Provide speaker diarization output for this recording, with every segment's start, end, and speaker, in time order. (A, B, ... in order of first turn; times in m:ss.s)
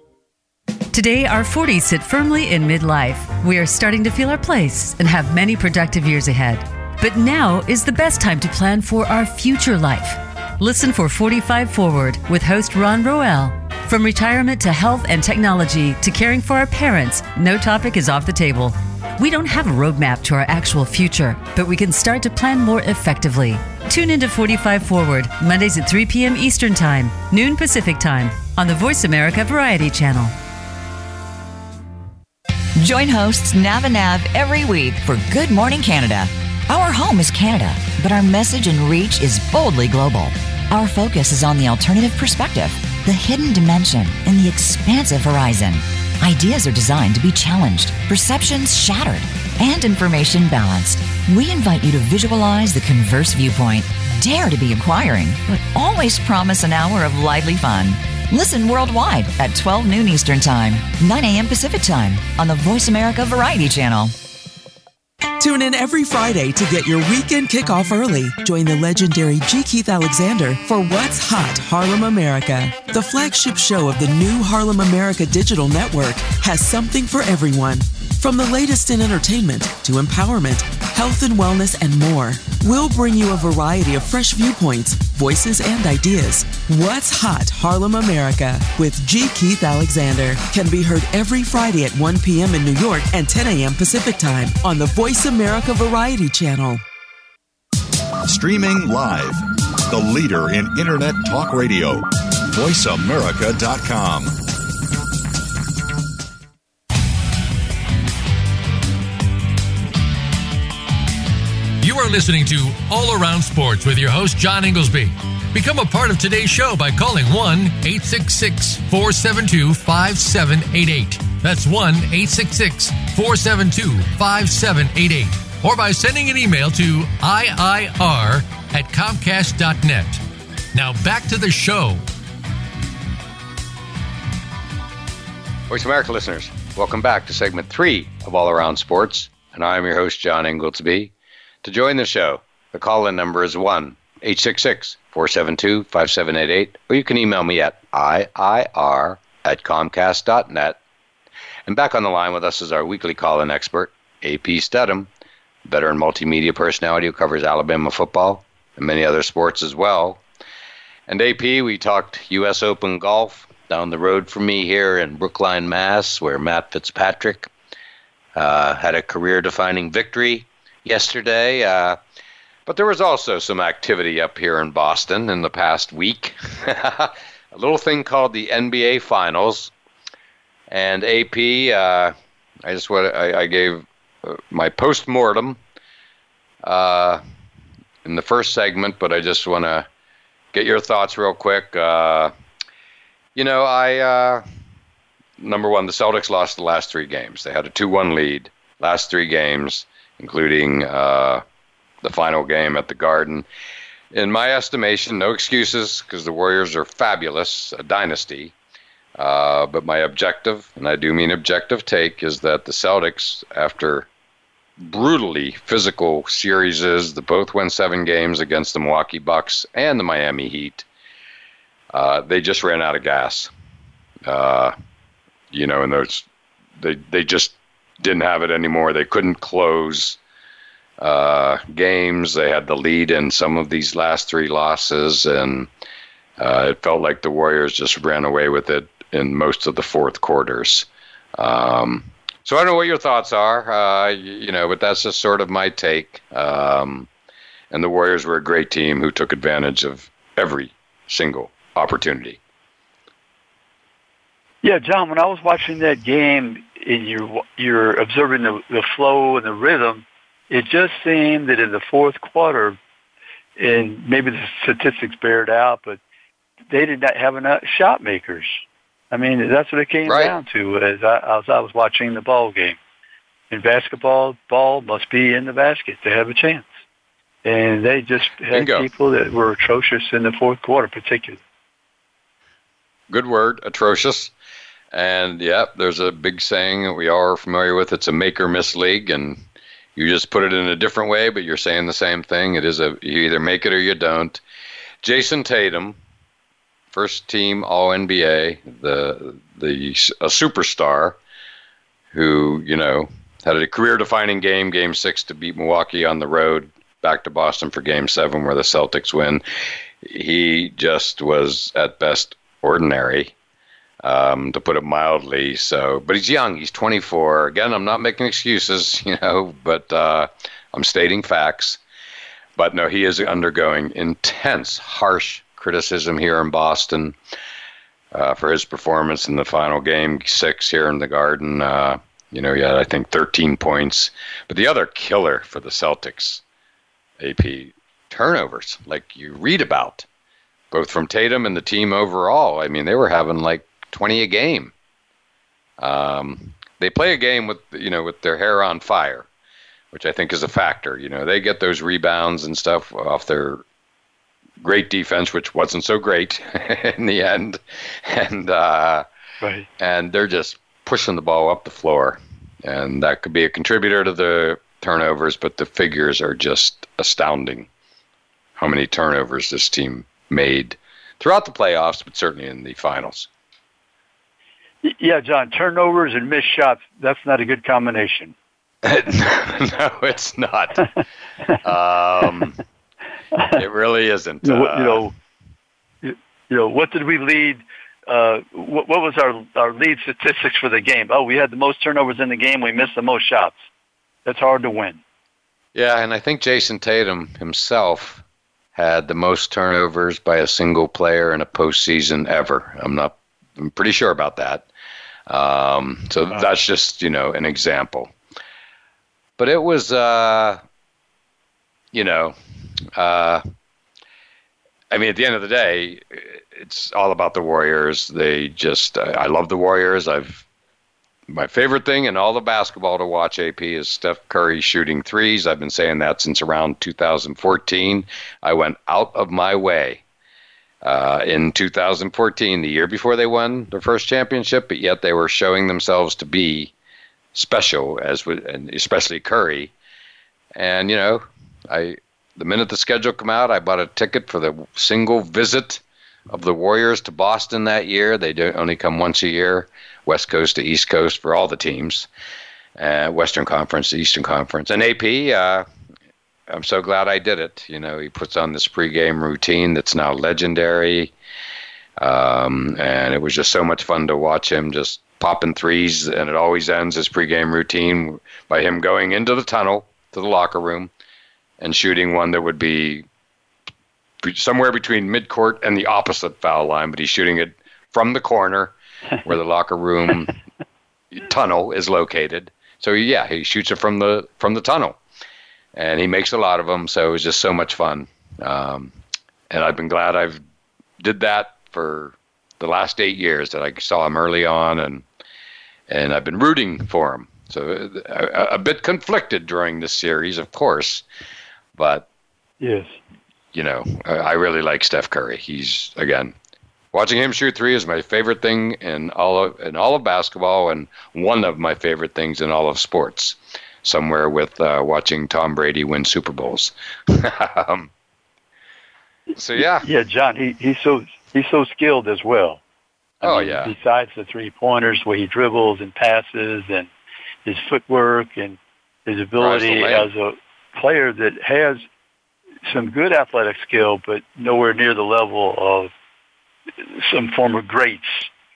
0:00.9-0:30.3 A
0:32.8-1:04.1 B
1:05.4-1:36.8 C
1:38.2-1:44.3 D
1:51.8-2:10.2 E
2:10.7-2:12.0 E
2:15.7-2:30.8 F
2:31.7-2:35.1 F
2:35.6-2:40.2 F
2:41.1-2:47.5 F
2:48.4-2:52.0 F
2:52.6-2:59.7 F
3:00.7-3:02.1 F
3:02.6-3:05.6 F
3:06.6-3:07.2 F
3:08.0-3:09.9 F
3:10.5-3:12.3 F
3:13.3-3:14.4 F
3:15.4-3:21.4 F
3:22.0-3:23.4 F
3:24.1-3:28.5 F
3:29.2-3:34.1 F
3:34.8-3:40.8 F
3:41.9-3:43.5 F
3:44.3-3:44.7 F
3:45.5-3:46.2 F
3:46.8-3:50.2 F
3:51.0-3:55.7 F
3:56.4-4:00.9 F
4:01.4-4:07.1 F
4:07.7-4:12.4 F
4:14.6-4:22.8 G
4:23.6-4:26.0 G
4:26.7-4:28.6 G
4:29.1-4:32.8 G
4:30.0-4:30.3 F
4:33.5-4:36.7 G
4:37.4-4:41.4 G
4:38.5-4:38.9 F
4:43.1-4:44.3 F
4:44.9-4:49.4 F
4:50.0-4:54.4 F
4:55.0-4:56.0 F
4:56.9-5:01.2 F
5:02.1-5:09.4 F
5:10.0-5:13.3 F
5:14.0-5:21.8 F
5:22.6-5:27.2 F
5:28.1-5:36.4 F
5:37.2-5:40.0 F
5:40.7-5:44.7 F
5:45.8-5:49.3 F
5:49.9-5:53.6 F
5:54.6-5:59.0 F
5:59.4-5:59.7 G
5:59.8-6:07.7 F
6:08.6-6:13.3 F
6:14.8-6:18.3 G
6:18.8-6:20.9 F
6:21.6-6:22.6 F
6:23.5-6:25.1 F
6:24.4-6:25.1 G
6:26.0-6:33.6 G
6:34.2-6:35.0 G
6:35.7-6:38.2 F
6:38.7-6:44.7 F
6:45.3-6:48.1 F
6:49.4-6:50.6 F
6:51.9-6:52.3 F
6:53.0-6:53.4 F
6:54.9-7:00.4 F
7:01.3-7:10.0 F
7:10.8-7:16.7 F
7:17.3-7:19.7 F
7:20.6-7:32.1 F
7:32.8-7:35.6 F
7:36.5-7:41.1 F
7:42.0-7:50.9 F
7:51.6-7:53.0 F
7:54.2-8:00.4 F
8:01.1-8:05.0 F
8:05.7-8:08.9 F
8:09.5-8:10.4 F
8:11.0-8:15.0 F
8:15.9-8:21.0 F
8:21.8-8:22.0 F
8:22.6-8:23.0 G
8:23.5-8:26.3 F
8:26.9-8:37.9 F
8:39.4-8:39.9 F
8:39.6-8:42.6 G
8:43.2-8:46.9 G
8:43.2-8:43.7 F
8:47.4-8:51.8 G
8:49.4-8:50.1 F
8:52.6-8:55.9 G
8:56.9-8:58.3 G